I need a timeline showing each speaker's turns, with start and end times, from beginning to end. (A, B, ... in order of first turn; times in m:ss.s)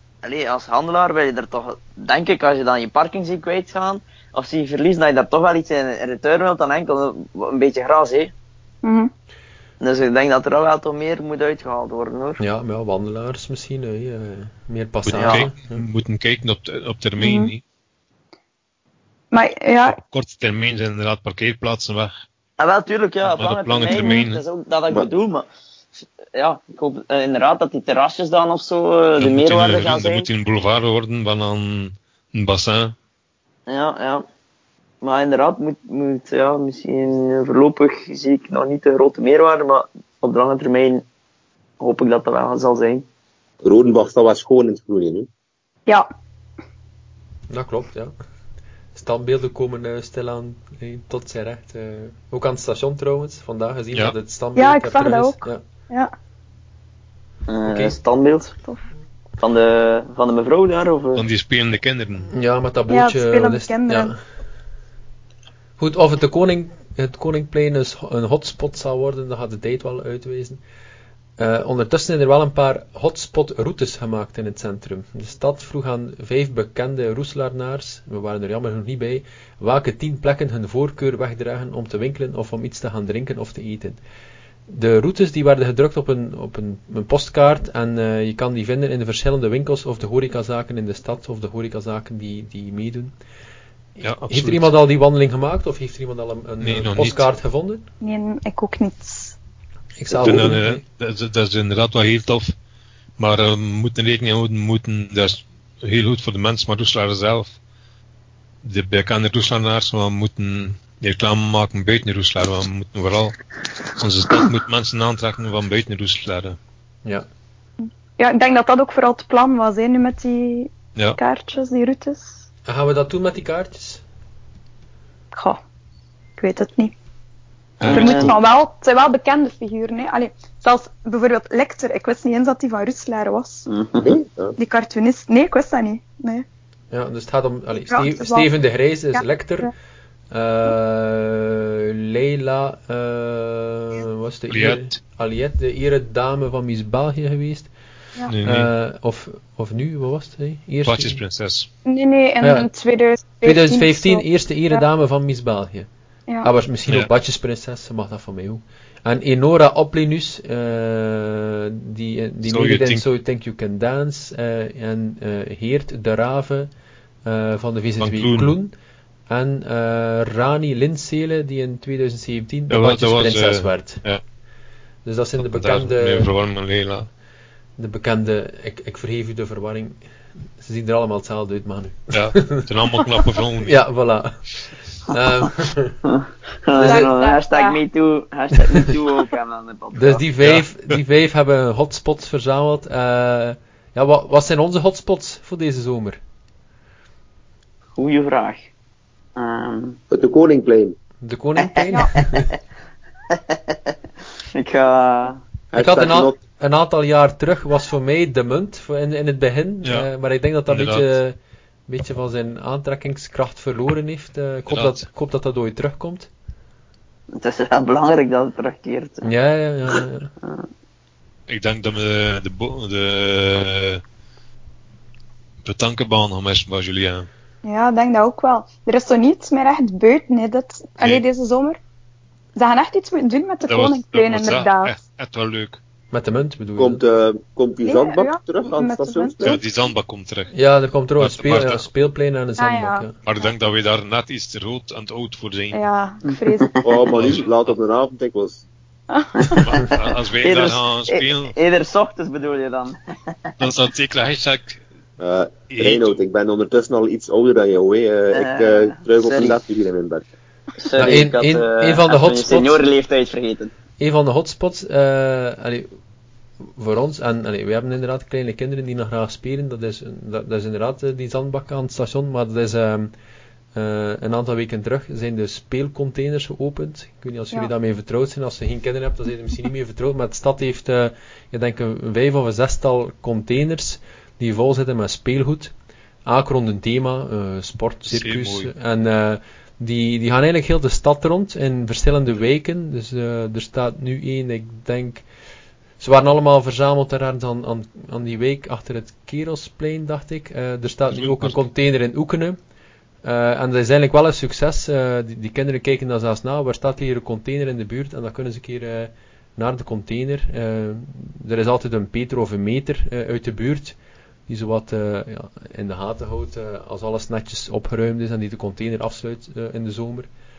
0:00.2-0:08.3 A
0:08.8-0:09.1 B
0:09.8-0:12.4 A
0:12.4-0:15.8 C
0:15.1-0:17.6 D
0:15.2-0:15.5 A
0:17.2-0:17.5 B
0:19.3-0:20.0 B
0:20.0-0:22.1 D
0:22.6-0:25.5 A
0:23.2-0:24.4 D
0:23.9-0:24.2 B
0:26.3-0:30.3 A
0:29.2-0:33.0 D
0:33.7-0:34.2 A
0:35.0-0:41.0 A
0:41.8-0:43.0 A
0:43.6-0:45.3 E
0:47.5-0:48.1 C
0:48.9-0:55.6 C
0:54.6-0:56.1 B
0:57.5-0:58.5 A
0:57.7-0:58.0 C
0:59.4-1:01.3 A
1:01.2-1:02.3 D
1:02.3-1:04.2 C
1:02.9-1:04.1 B
1:05.8-1:10.6 C
1:11.4-1:24.0 C
1:24.7-1:33.1 C
1:34.0-1:37.9 C
1:34.0-1:34.7 D
1:36.6-1:37.3 D
1:38.0-1:39.4 B
1:40.0-1:40.8 C
1:40.1-1:42.5 D
1:43.2-1:47.6 D
1:48.6-1:53.4 D
1:54.0-1:56.6 D
1:57.8-2:02.4 B
2:02.7-2:04.0 C
2:05.3-2:05.6 B
2:06.4-2:06.9 B
2:07.8-2:08.4 A
2:07.8-2:08.4 D
2:07.9-2:13.7 B
2:13.7-2:14.2 A
2:14.0-2:14.6 E
2:14.6-2:16.4 B
2:16.9-2:19.7 C
2:17.9-2:18.5 B
2:19.1-2:19.7 B
2:20.3-2:27.7 C
2:24.5-2:25.0 D
2:28.3-2:28.7 D
2:28.4-2:31.2 C
2:30.9-2:31.7 D
2:31.8-2:34.8 B
2:32.4-2:32.7 C
2:33.4-2:35.9 C
2:36.4-2:46.7 C
2:42.4-2:43.0 D
2:47.2-2:48.7 C
2:48.0-2:48.5 D
2:49.3-2:54.0 C
2:52.7-2:54.2 D
2:55.0-2:56.3 C
2:55.4-2:57.1 D
2:57.8-3:00.0 C
3:00.6-3:02.6 C
3:02.1-3:03.8 D
3:03.6-3:04.5 C
3:05.1-3:06.0 C
3:06.1-3:10.2 A
3:06.8-3:07.1 C
3:06.8-3:07.8 B
3:09.9-3:16.2 C
3:10.4-3:10.9 D
3:18.0-3:18.7 A
3:19.4-3:20.0 A
3:20.1-3:21.0 E
3:21.2-3:22.5 C
3:21.6-3:22.6 A
3:23.3-3:24.0 A
3:24.5-3:25.4 A
3:25.7-3:26.4 E
3:25.8-3:31.4 C
3:30.7-3:31.1 D
3:31.9-3:36.3 C
3:34.7-3:35.0 D
3:37.3-3:39.3 A
3:39.2-3:40.3 C
3:40.4-3:40.7 A
3:41.5-3:44.0 D
3:45.6-3:47.3 D
3:47.6-3:51.8 B
3:52.6-3:54.9 B
3:53.7-3:55.8 D
3:56.1-3:57.0 C
3:56.8-3:59.6 E
3:57.8-3:59.4 B
3:59.4-4:00.5 D
4:00.5-4:03.2 C
4:01.2-4:01.9 D
4:02.6-4:03.0 B
4:03.2-4:05.8 D
4:05.7-4:06.7 B
4:06.2-4:06.9 A
4:06.8-4:08.6 E
4:07.1-4:07.7 D
4:09.1-4:09.9 B
4:09.4-4:09.7 A
4:09.5-4:11.5 D
4:10.4-4:13.5 A
4:13.6-4:14.8 D
4:15.2-4:20.2 E
4:15.7-4:16.2 D
4:18.3-4:19.6 A
4:20.8-4:23.7 A
4:21.0-4:22.8 C
4:24.0-4:25.9 C
4:26.7-4:33.1 C
4:33.8-4:45.7 C
4:46.3-4:55.2 C
4:48.1-4:48.7 D
4:56.0-5:02.6 C
5:01.1-5:01.7 D
5:03.2-5:14.0 C
5:14.5-5:20.3 C